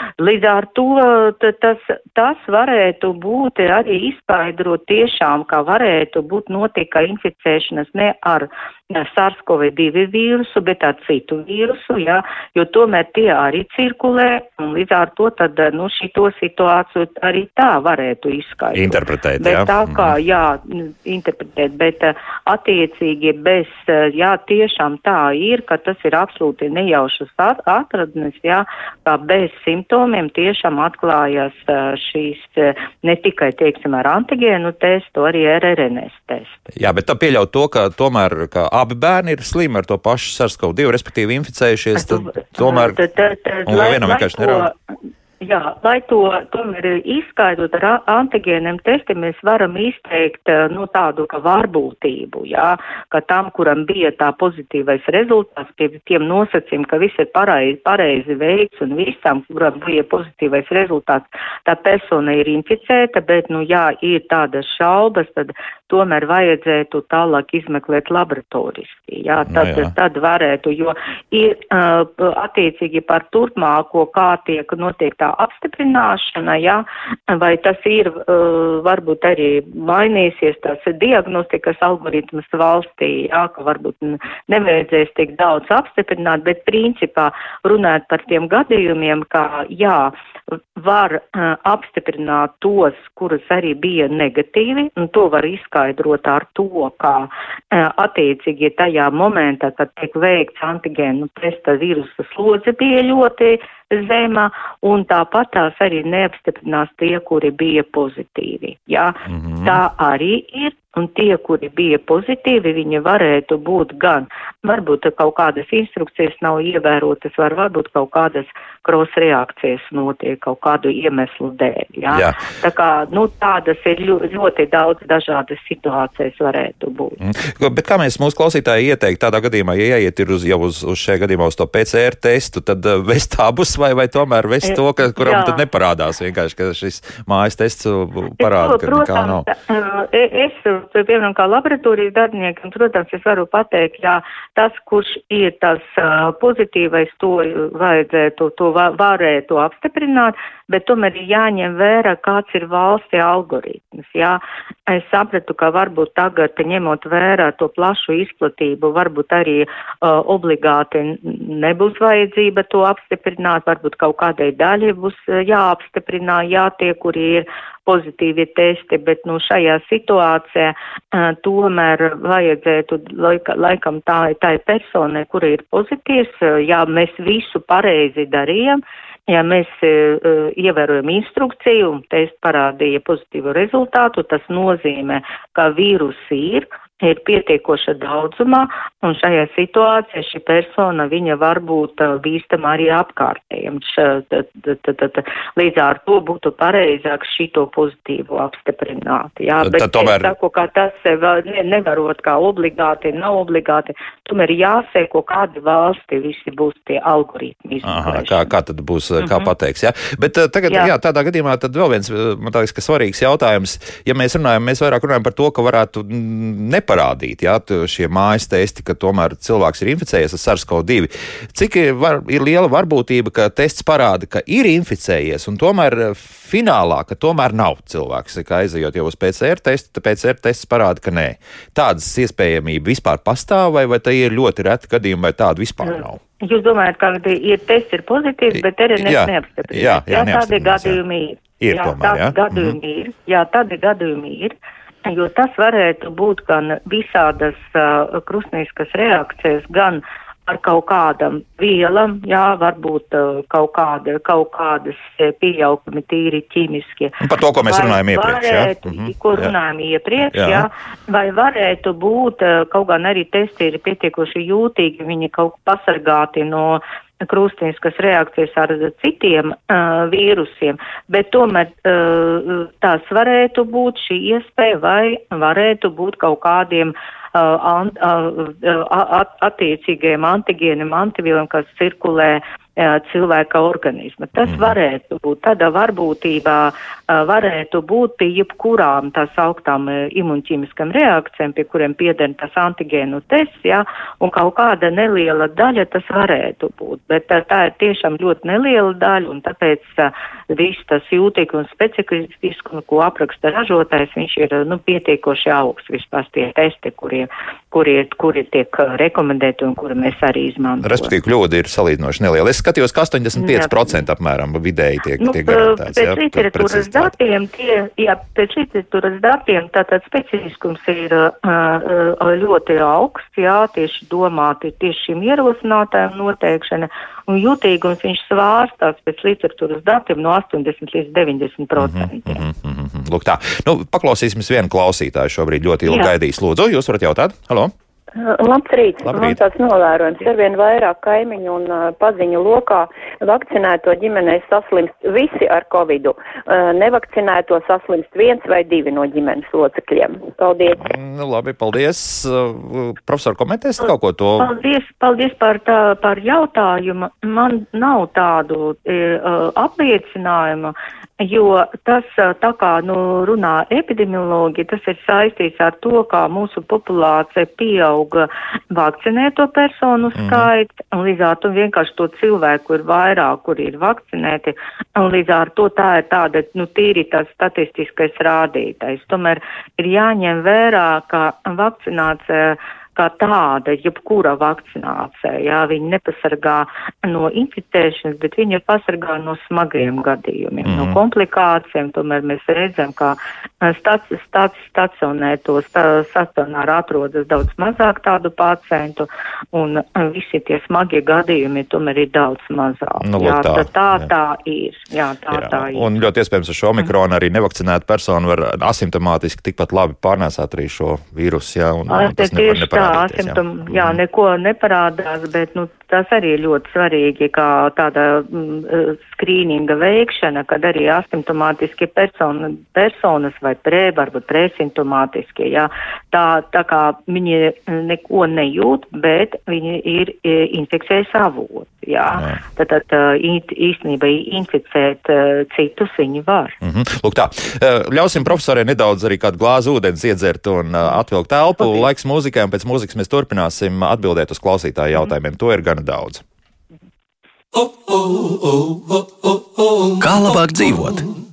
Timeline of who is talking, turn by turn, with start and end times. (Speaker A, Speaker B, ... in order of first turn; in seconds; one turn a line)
Speaker A: 0.2-36.7
Speaker B: 18.7-20.1
Speaker B: 36.7-43.0
Speaker A: 42.0-44.7
Speaker B: 43.7-44.7
Speaker A: 45.4-90.1
Speaker B: 69.5-69.9
Speaker A: 90.8-127.2
Speaker B: 109.3-109.8
Speaker B: 122.1-122.4
Speaker B: 127.2-139.4
Speaker A: 134.6-135.6
Speaker A: 138.4-208.5
Speaker B: 199.6-200.3
Speaker B: 207.8-236.2
Speaker A: 209.2-209.5
Speaker A: 235.8-311.1
Speaker B: 238.5-241.0
Speaker B: 241.6-242.8
Speaker B: 257.2-259.5
Speaker B: 260.3-260.7
Speaker B: 284.5-284.7
Speaker B: 310.8-317.1
Speaker A: 313.4-313.8
Speaker A: 315.2-332.4
Speaker B: 331.8-337.7
Speaker A: 335.9-336.1
Speaker C: 338.2-350.9
Speaker B: 339.0-339.4
Speaker B: 350.8-354.5
Speaker A: 354.4-405.9
Speaker B: 370.1-370.5
Speaker B: 390.6-391.0
Speaker B: 403.0-404.1
Speaker B: 405.3-414.0
Speaker A: 411.9-436.6
Speaker B: 432.1-432.4
Speaker B: 436.6-446.2
Speaker A: 441.6-441.9
Speaker B: 450.0-451.1